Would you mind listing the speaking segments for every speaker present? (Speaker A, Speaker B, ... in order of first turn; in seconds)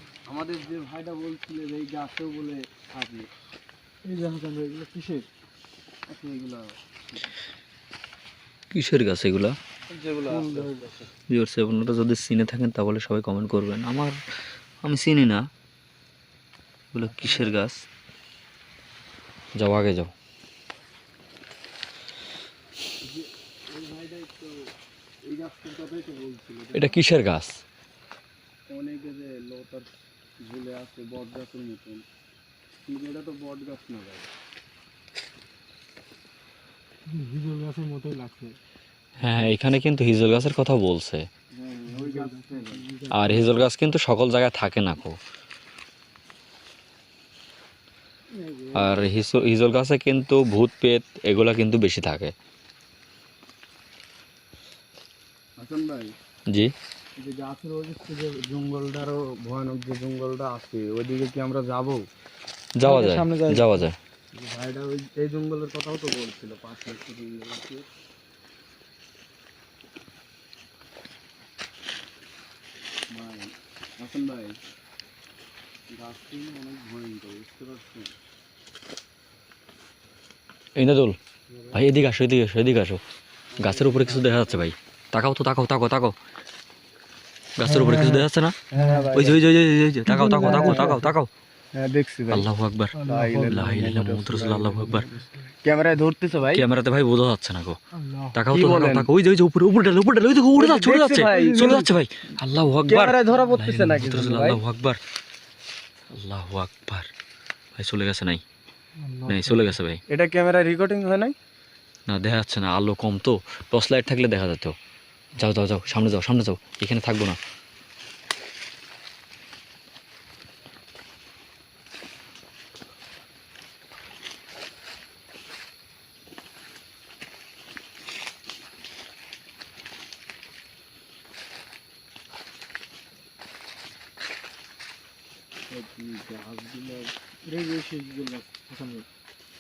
Speaker A: 0.2-3.3, 6.1-7.2, 9.9-11.1, 23.0-24.5, 25.3-26.9, 28.7-32.0, 32.9-34.2, 41.5-42.9, 55.6-56.1, 57.2-62.1, 64.3-67.9, 73.1-74.6, 75.9-78.1, 81.5-81.9, 83.5-84.6, 88.7-89.5, 90.4-91.0, 91.7-92.5, 93.1-96.7, 98.5-99.1, 100.6-101.9, 102.8-104.6, 110.1-111.3, 135.7-137.1
Speaker B: 4.1-5.3, 10.3-10.9, 37.1-38.6, 41.9-43.6, 48.4-48.9, 62.8-63.8, 87.7-89.2, 90.1-91.1, 92.9-93.6, 97.9-98.4, 101.3-101.9, 109.0-109.7, 137.5-139.0
Speaker C: 8.7-9.6, 11.3-14.2, 14.8-15.5, 16.9-17.8, 19.6-20.1, 26.7-27.6, 39.2-41.3, 43.1-45.2, 48.8-52.3, 62.8-64.0, 80.8-81.2, 81.7-83.0, 83.6-86.2, 87.6-88.6, 89.1-91.3, 92.3-95.1, 96.5-97.8, 98.3-105.0, 106.1-107.1, 107.8-108.4, 109.3-110.0, 112.1-114.8, 115.4-117.4